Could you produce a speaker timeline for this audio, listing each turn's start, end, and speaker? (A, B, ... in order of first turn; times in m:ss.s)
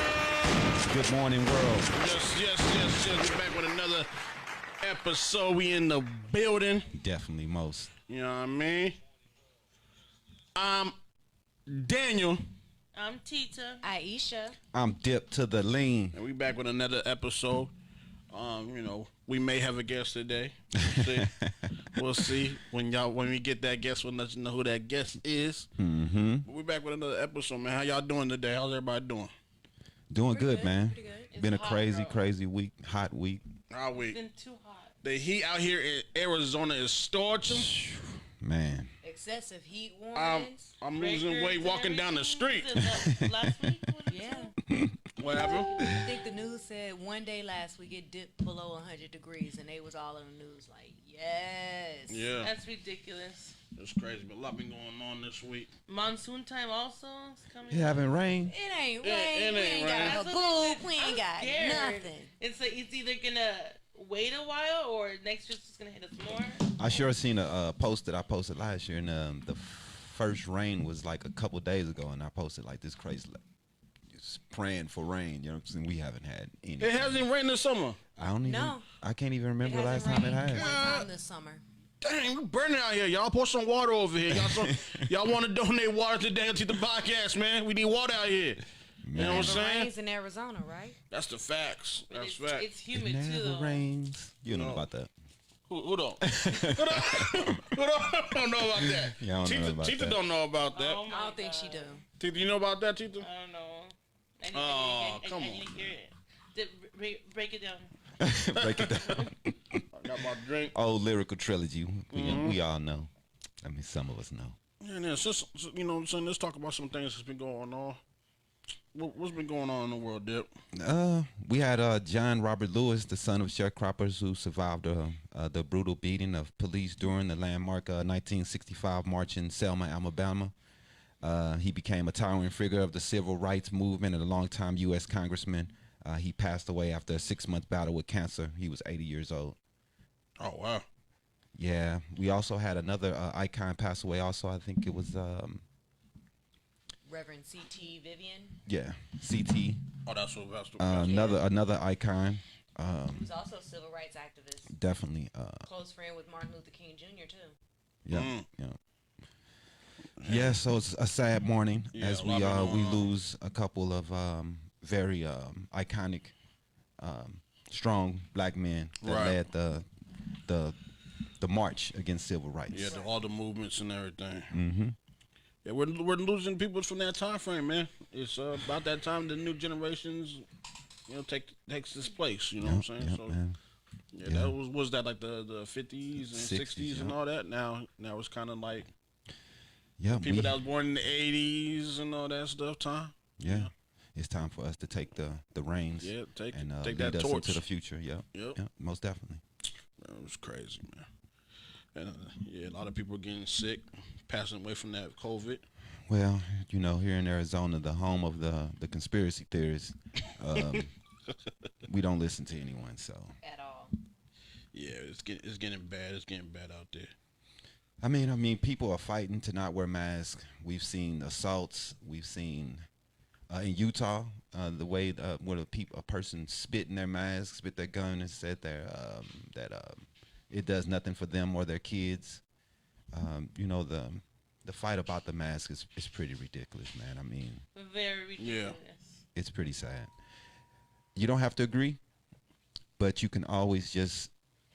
0:00.8-0:01.9 A
0:01.9-0:04.1 B
0:04.8-0:06.9 B
0:06.9-0:07.9 A
0:08.1-0:09.0 B
0:10.5-0:11.0 B
0:11.7-0:12.4 B
0:12.9-0:13.8 C
0:13.8-0:14.6 D
0:14.7-0:16.2 A
0:16.1-0:17.7 B
0:18.3-0:21.3 B
0:20.9-0:21.7 A
0:21.9-0:25.7 B
0:25.8-0:26.5 A
0:26.4-0:29.3 B
0:30.1-0:33.4 A
0:30.3-0:31.3 D
0:31.3-0:32.2 C
0:33.7-0:34.2 B
0:33.9-0:35.0 C
0:35.0-0:37.7 B
0:37.5-0:38.9 A
0:39.0-0:40.7 D
0:40.1-0:42.8 B
0:40.9-0:44.5 C
0:42.8-0:43.3 A
0:44.1-0:44.5 D
0:45.2-0:45.7 B
0:45.4-0:52.3 D
0:45.8-0:46.1 A
0:52.1-0:52.5 B
0:52.4-0:53.6 C
0:53.7-0:55.7 B
0:55.9-0:58.1 C
0:57.7-0:58.5 A
0:58.4-1:02.3 D
0:59.0-1:00.2 B
0:59.8-1:06.9 C
1:06.8-1:13.4 A
1:14.1-1:17.2 A
1:16.8-1:18.0 B
1:18.2-1:20.7 A
1:18.4-1:18.8 D
1:19.6-1:21.6 D
1:20.2-1:21.1 B
1:22.0-1:28.6 B
1:24.3-1:25.1 A
1:29.0-1:29.6 A
1:29.1-1:29.9 B
1:29.2-1:31.0 D
1:31.1-1:32.7 B
1:32.1-1:33.8 C
1:32.9-1:35.1 A
1:34.5-1:34.8 B
1:35.7-1:41.0 B
1:36.2-1:37.7 A
1:38.7-1:40.2 A
1:40.6-1:42.0 C
1:41.1-1:42.0 D
1:42.2-1:43.3 B
1:43.2-1:47.9 C
1:44.5-1:45.9 B
1:48.2-1:49.8 A
1:48.6-1:49.2 B
1:49.9-1:50.7 B
1:50.7-1:53.1 A
1:52.1-1:52.6 B
1:53.6-1:54.6 A
1:54.8-1:58.0 B
1:58.9-2:00.5 B
2:00.7-2:10.5 A
2:11.2-2:19.6 A
2:20.4-2:20.8 B
2:21.5-2:25.6 A
2:27.0-2:28.6 D
2:28.6-2:29.8 A
2:30.0-2:31.4 B
2:30.8-2:33.3 A
2:31.0-2:31.4 D
2:33.1-2:34.7 D
2:34.7-2:35.7 A
2:35.6-2:37.6 D
2:38.0-2:38.8 A
2:38.1-2:38.4 B
2:40.2-2:40.6 B
2:40.2-2:46.3 A
2:41.9-2:43.1 B
2:47.0-2:49.9 A
2:49.0-2:49.4 B
2:50.4-2:50.8 A
2:51.4-2:53.0 A
2:52.7-2:54.5 B
2:52.8-2:53.2 D
2:54.5-2:55.0 A
2:55.6-3:00.4 B
3:01.1-3:03.4 B
3:02.6-3:03.6 A
3:04.1-3:08.9 B
3:04.2-3:04.5 A
3:06.2-3:07.2 A
3:10.0-3:10.6 A
3:10.1-3:13.7 B
3:13.4-3:19.4 A
3:16.0-3:17.6 B
3:18.3-3:18.6 B
3:20.0-3:21.1 B
3:21.9-3:25.6 B
3:26.1-3:30.9 A
3:31.8-3:33.4 A
3:33.4-3:33.9 D
3:34.7-3:37.1 B
3:38.0-3:42.8 A
3:43.5-3:52.4 A
3:53.1-3:57.6 A
3:57.7-3:59.2 C
3:58.4-3:58.8 B
3:59.3-4:00.1 A
4:01.1-4:02.0 A
4:03.0-4:04.3 A